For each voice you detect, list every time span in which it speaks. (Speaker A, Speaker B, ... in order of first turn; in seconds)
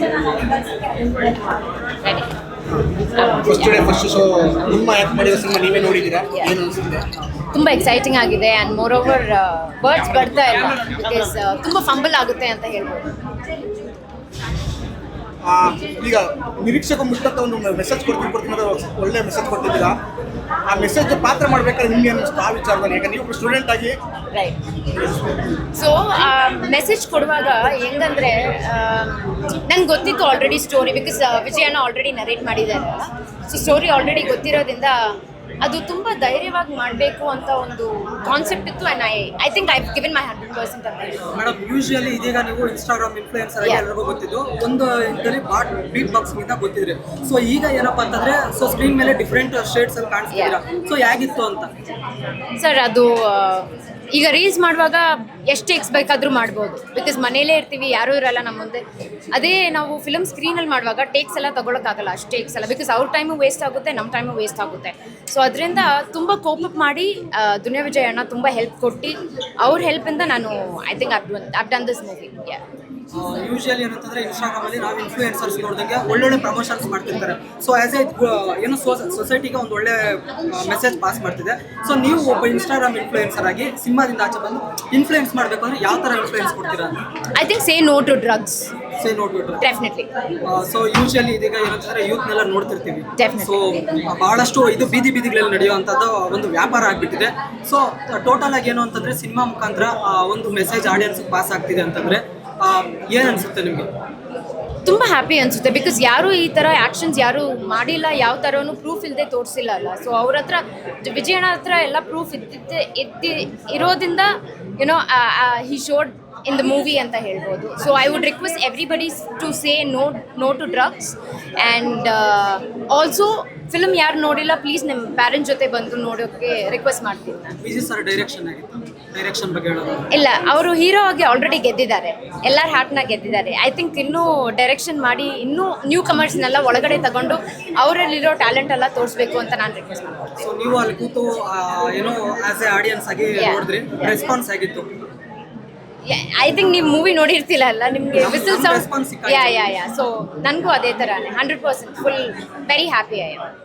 Speaker A: 2.0-2.3, 7.5-13.1, 25.7-41.3, 50.3-50.6, 52.6-72.6, 87.3-88.7, 89.6-90.1, 93.2-93.9, 104.9-127.6, 130.1-140.5, 143.4-143.7, 146.0-153.5
Speaker B: 3.4-7.1, 15.4-20.0, 20.7-24.0
Speaker C: 41.4-51.7, 73.1-87.0, 89.0-89.6, 90.5-103.9, 127.6-130.1, 140.4-144.9, 148.2-149.7